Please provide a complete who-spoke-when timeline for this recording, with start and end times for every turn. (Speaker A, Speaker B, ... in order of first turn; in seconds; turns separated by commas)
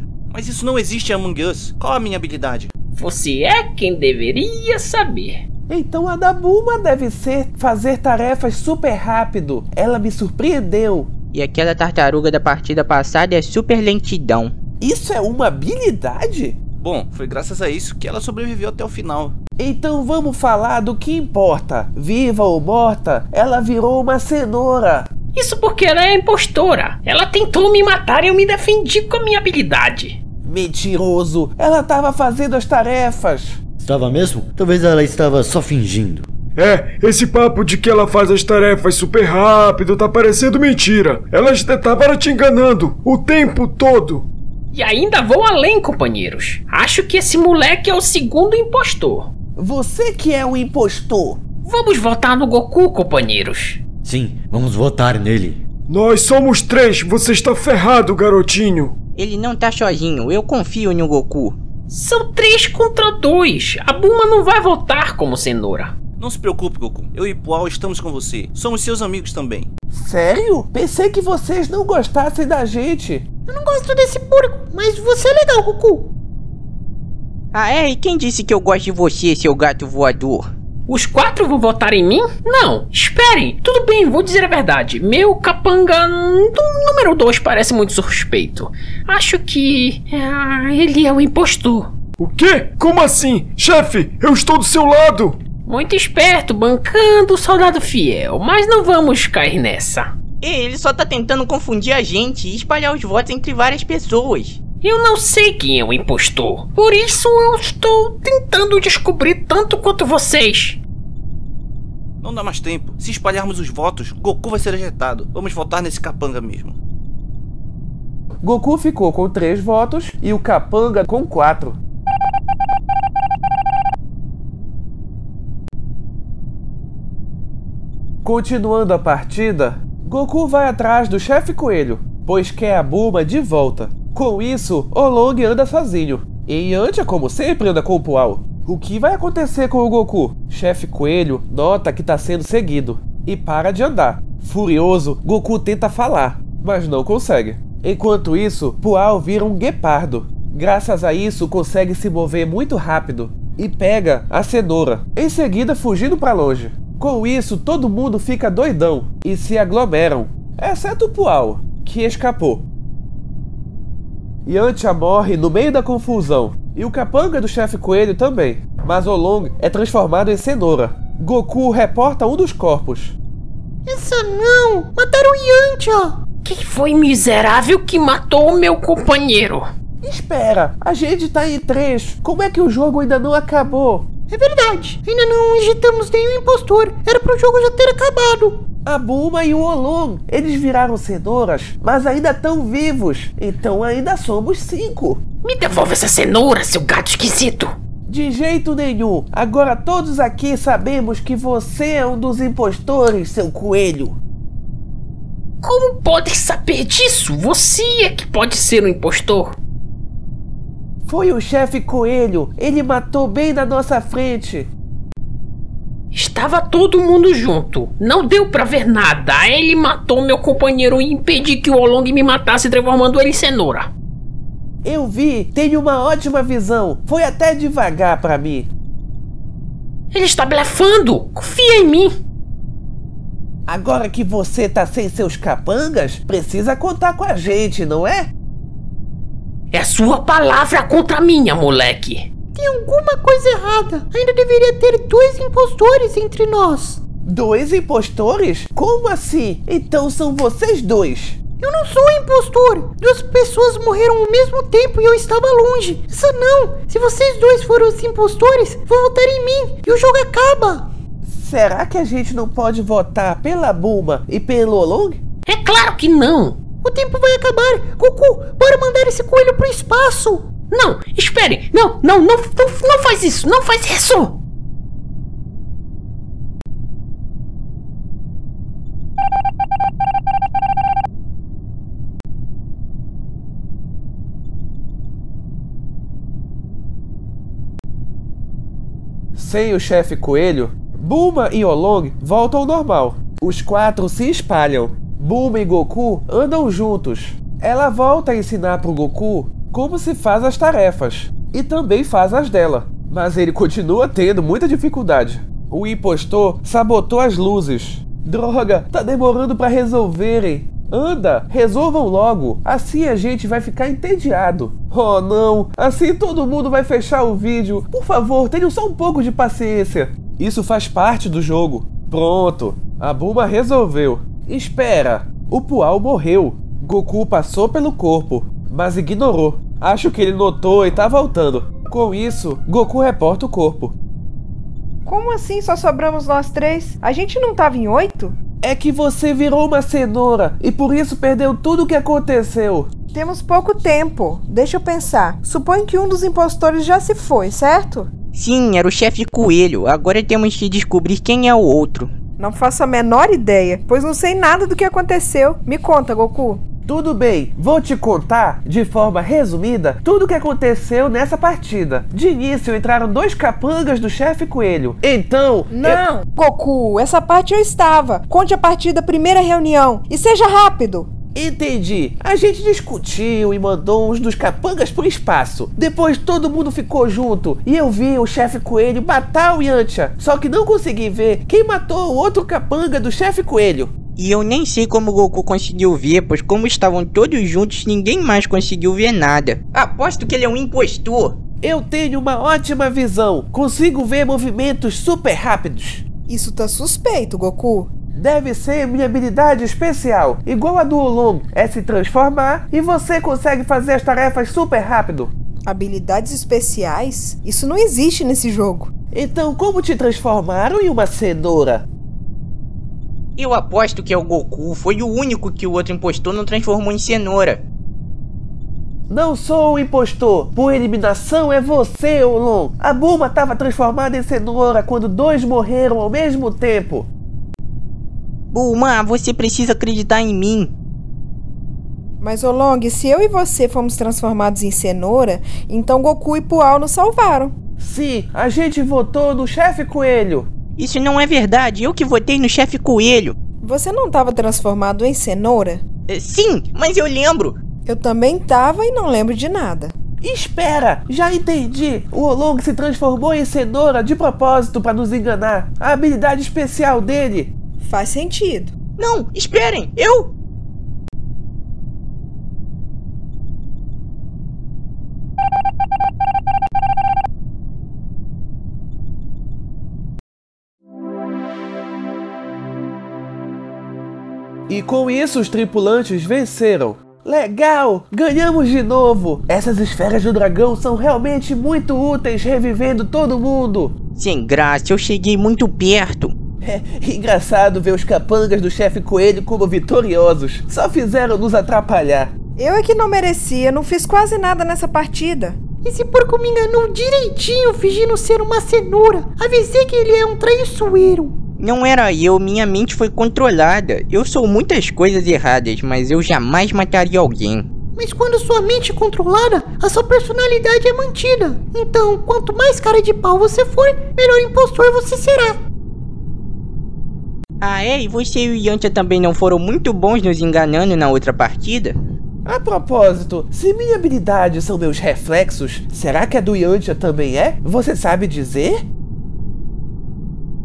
Speaker A: 0.3-2.7, Speaker B: 3.0-5.3, Speaker C: 5.7-11.1, Speaker D: 11.3-14.5, Speaker C: 14.8-16.6, Speaker A: 16.8-19.3, Speaker C: 19.6-25.1, Speaker B: 25.3-30.2, Speaker C: 30.4-33.6, Speaker E: 33.8-36.3, Speaker F: 36.5-44.3, Speaker B: 44.7-49.3, Speaker C: 49.6-51.4, Speaker B: 51.6-53.8, Speaker E: 54.0-55.6, Speaker F: 55.9-58.9, Speaker D: 59.1-61.6, Speaker B: 61.9-65.9, Speaker A: 66.2-69.7, Speaker C: 69.9-73.2, Speaker G: 73.5-76.1, Speaker D: 77.5-80.5, Speaker B: 80.9-91.8, Speaker F: 92.2-95.4, Speaker B: 95.7-100.0, Speaker D: 100.4-104.6, Speaker B: 104.8-110.8, Speaker A: 112.2-116.8, Speaker C: 118.4-121.8, Speaker C: 128.2-162.6, Speaker C: 164.4-173.2, Speaker G: 173.8-176.2, Speaker B: 176.4-179.6, Speaker C: 180.0-184.1, Speaker G: 184.3-188.6, Speaker C: 188.8-195.2, Speaker B: 195.4-197.7, Speaker C: 198.1-204.2, Speaker B: 205.6-209.6, Speaker C: 211.1-214.7, Speaker B: 216.1-223.9, Speaker C: 224.8-228.7, Speaker B: 230.1-232.1, Speaker C: 233.7-238.3, Speaker B: 239.7-242.3, Speaker G: 242.5-247.0, Speaker C: 247.2-251.4, Speaker G: 251.6-260.9, Speaker C: 261.3-265.2, Speaker B: 265.4-266.6, Speaker G: 266.8-270.5, Speaker B: 270.7-274.4, Speaker C: 289.4-333.9, Speaker H: 335.1-338.4, Speaker C: 338.6-342.9, Speaker H: 343.1-348.1, Speaker D: 348.3-352.1, Speaker H: 352.4-356.6, Speaker C: 356.9-366.0, Speaker H: 365.7-371.1, Speaker C: 371.3-383.9, Speaker D: 384.2-391.4, Speaker C: 391.6-396.0, Speaker H: 396.3-397.9, Speaker C: 398.1-405.3, Speaker H: 405.7-408.9, Speaker C: 409.1-411.9, Speaker D: 413.4-417.6, Speaker C: 419.1-427.1, Speaker D: 428.5-430.7, Speaker H: 432.2-437.5, Speaker C: 437.8-440.5, Speaker D: 440.8-443.4, Speaker H: 443.6-445.8, Speaker D: 446.1-447.6, Speaker H: 447.9-449.9, Speaker C: 450.2-457.5, Speaker H: 457.8-458.7, Speaker D: 459.0-460.3, Speaker C: 474.7-483.9, Speaker D: 484.2-486.3, Speaker C: 486.6-492.3, Speaker H: 492.6-495.6, Speaker G: 495.8-501.3, Speaker D: 501.6-507.7, Speaker G: 507.9-515.6, Speaker D: 517.6-521.9, Speaker C: 522.4-528.8